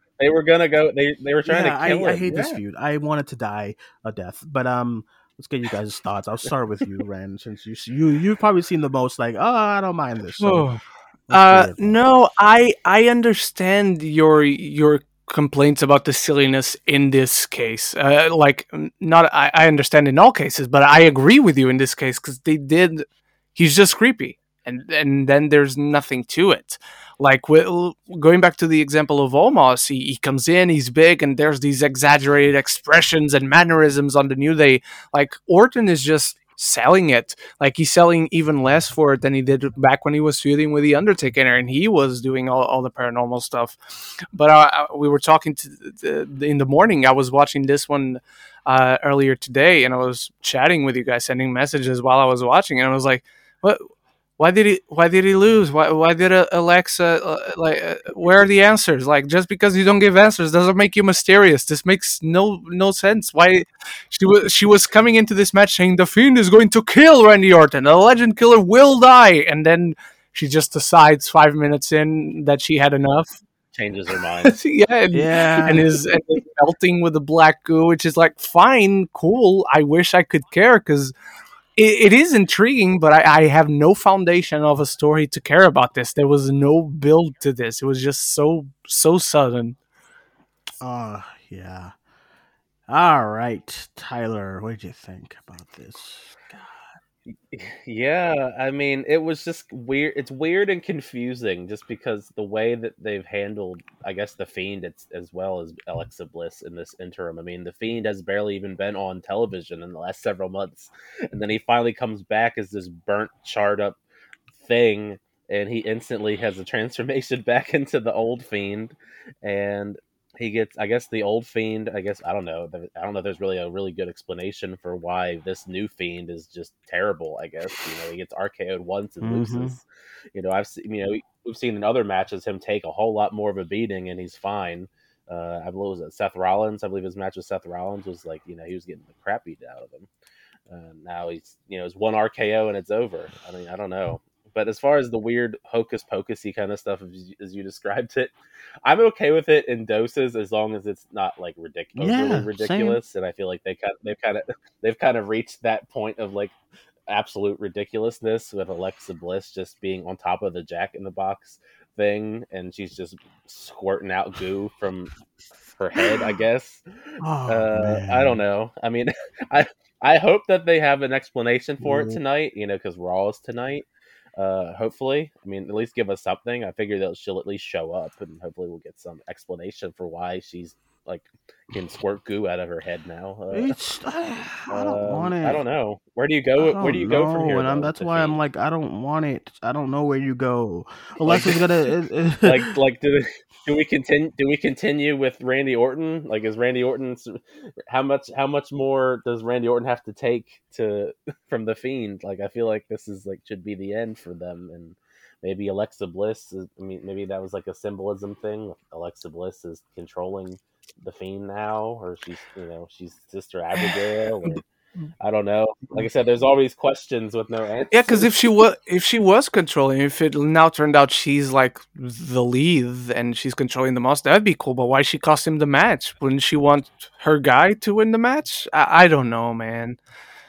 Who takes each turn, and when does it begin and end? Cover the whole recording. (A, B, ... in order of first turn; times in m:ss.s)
0:00.2-0:02.6 A
0:01.4-0:10.7 B
0:10.4-0:43.8 C
0:11.3-0:12.0 B
0:44.3-0:53.8 C
0:54.4-1:13.4 C
1:13.7-1:14.6 A
1:14.4-1:21.1 C
1:15.1-1:15.9 B
1:21.8-1:29.8 C
1:30.8-1:31.9 B
1:32.9-1:36.8 B
1:37.3-1:54.0 A
1:54.5-2:20.1 A
2:09.2-2:09.8 B
2:20.7-2:28.3 A
2:28.8-2:36.6 A
2:32.0-2:33.0 B
2:37.1-2:45.1 A
2:45.8-3:03.7 A
2:47.2-2:48.4 B
2:51.8-2:52.2 B
3:03.5-3:05.6 B
3:04.7-3:08.4 A
3:06.6-3:12.7 B
3:11.2-3:11.6 A
3:12.4-3:34.6 A
3:35.2-3:38.3 A
3:37.9-3:50.0 C